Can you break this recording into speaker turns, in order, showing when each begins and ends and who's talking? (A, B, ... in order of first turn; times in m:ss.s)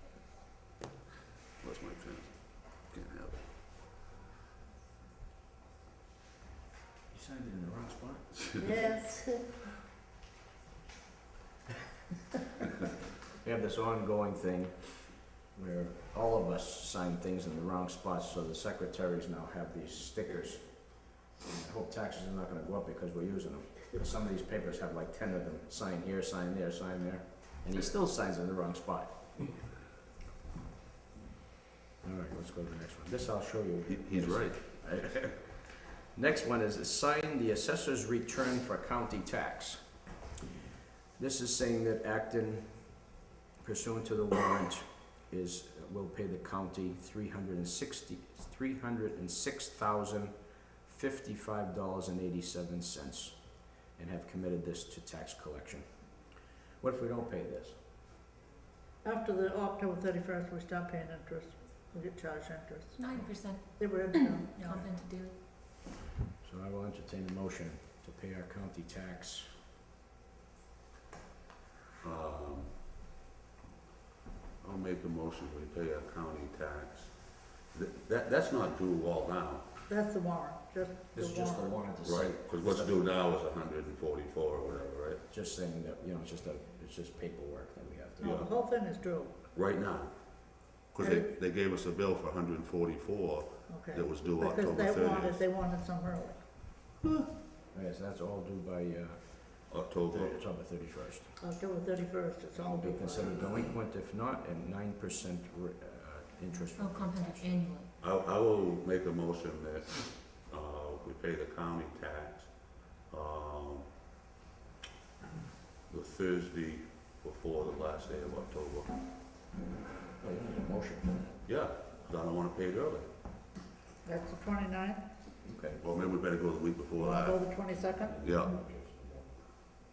0:01.6-0:03.4 A
0:07.1-0:08.2 B
0:08.6-0:09.4 C
0:13.4-0:29.5 B
0:32.0-0:40.0 B
0:33.9-0:35.3 A
0:41.2-0:43.1 B
0:43.6-0:53.4 B
0:53.9-0:55.9 B
0:56.8-0:57.8 B
0:59.0-1:03.0 C
1:03.0-1:05.3 D
1:03.8-1:04.8 C
1:06.4-1:09.5 B
1:12.0-1:12.8 A
1:14.6-1:19.8 A
1:19.9-1:21.8 C
1:21.1-1:23.1 B
1:22.0-1:25.2 A
1:25.3-1:28.4 B
1:28.2-1:29.3 C
1:29.5-1:35.4 A
1:31.0-1:31.3 C
1:33.7-1:36.4 C
1:37.0-1:37.3 A
1:37.7-1:41.3 B
1:39.7-1:40.4 A
1:41.4-1:43.6 C
1:42.6-1:47.7 B
1:46.8-1:47.9 D
1:48.0-1:52.5 A
1:53.1-1:53.9 A
1:55.9-1:59.0 A
2:00.2-2:01.4 B
2:01.4-2:03.1 A
2:04.0-2:05.0 C
2:05.4-2:05.8 B
2:05.8-2:07.4 A
2:07.0-2:08.2 C
2:08.1-2:09.2 B
2:08.2-2:08.6 A